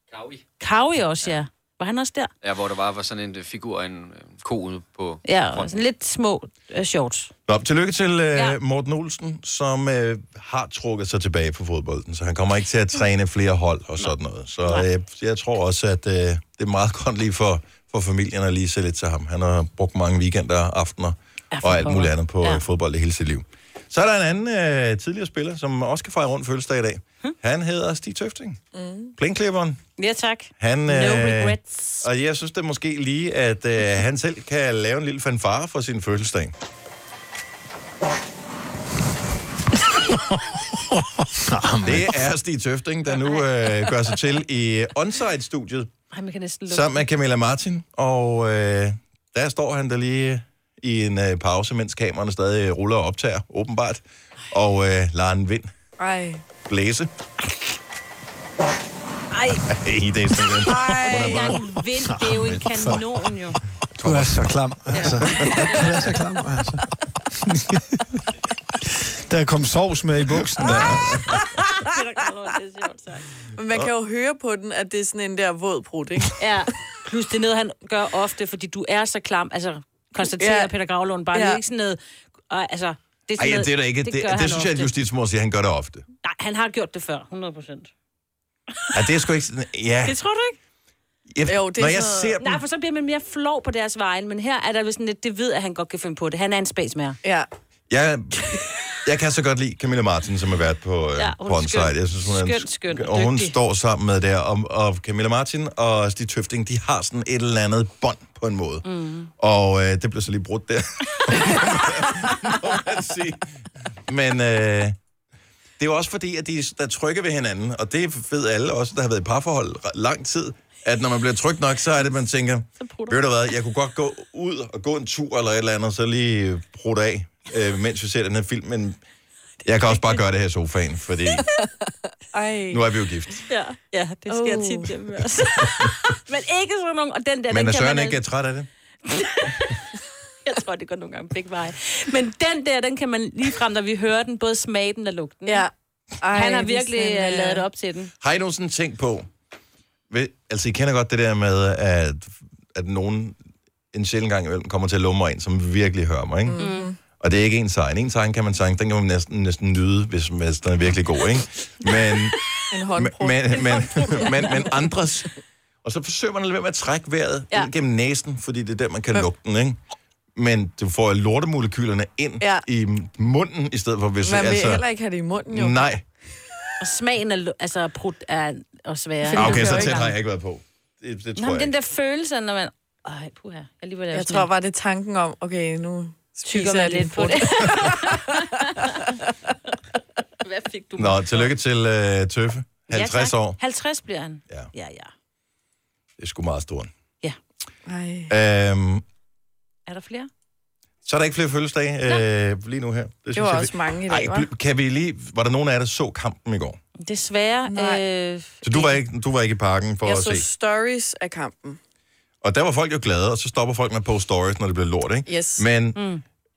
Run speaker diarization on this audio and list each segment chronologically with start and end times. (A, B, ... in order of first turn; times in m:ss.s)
0:00.1-0:00.4 A
0:00.6-0:02.3 B
0:02.4-0:05.7 A
0:05.2-0:07.3 B
0:07.5-0:28.6 C
0:21.5-0:22.6 B
0:28.7-0:29.1 D
0:29.2-0:29.8 C
0:30.0-0:32.1 B
0:30.6-0:36.5 C
0:41.5-0:42.1 E
0:41.8-0:45.9 C
0:43.1-0:43.4 B
0:46.1-0:47.0 B
0:46.7-0:55.7 C
0:56.0-0:56.4 D
0:56.6-0:57.1 C
0:59.3-0:59.6 B
0:59.5-1:01.6 C
1:00.7-1:01.6 D
1:01.0-1:03.6 B
1:02.1-1:02.9 E
1:04.0-1:06.8 E
1:04.9-1:06.0 B
1:09.5-1:10.8 E
1:10.6-1:11.4 C
1:11.6-1:13.3 B
1:13.6-1:16.4 D
1:16.4-1:22.0 B
1:20.4-1:20.7 D
1:21.3-1:21.6 D
1:22.5-1:24.9 B
1:23.4-1:26.0 C
1:26.2-1:27.9 B
1:28.9-1:30.2 C
1:30.0-1:30.6 B
1:31.3-1:32.6 C
1:31.5-1:32.4 D
1:32.4-1:37.2 B
1:37.9-1:48.8 C
1:41.2-1:43.5 B
1:48.9-1:49.3 B
1:49.4-1:53.5 C
1:54.1-1:55.0 C
1:55.8-2:09.0 C
2:02.8-2:03.2 B
2:09.6-2:11.5 C
2:09.9-2:10.2 B
2:12.3-2:12.8 D
2:12.7-2:13.4 C
2:13.5-2:18.2 B
2:14.3-2:15.1 D
2:17.5-2:18.7 C
2:19.1-2:19.9 B
2:20.4-2:25.7 B
2:25.5-2:27.7 D
2:26.3-2:28.1 B
2:28.2-2:29.3 C
2:30.1-2:33.4 C
2:33.9-2:36.6 C
2:36.5-2:37.0 D
2:36.6-2:36.9 B
2:37.2-2:42.4 C
2:42.7-2:44.7 D
2:43.0-2:45.3 C
2:45.8-2:49.8 C
2:50.4-2:54.8 C
2:54.2-2:55.9 D
2:55.5-2:56.0 C
2:56.8-3:00.2 B
2:59.2-3:00.0 D
2:59.4-3:01.7 C
3:01.4-3:04.5 B
3:04.1-3:08.4 D
3:06.4-3:09.1 B
3:10.4-3:11.5 B
3:11.0-3:13.6 C
3:12.9-3:15.1 B
3:16.2-3:16.9 C
3:17.9-3:18.3 D
3:18.3-3:19.0 C
3:19.9-3:20.3 B
3:21.0-3:26.8 C
3:23.3-3:24.5 D
3:27.0-3:29.0 B
3:27.7-3:28.0 D
3:28.6-3:30.5 C
3:30.0-3:31.8 D
3:32.4-3:36.0 C
3:35.3-3:35.6 D
3:36.0-3:36.2 B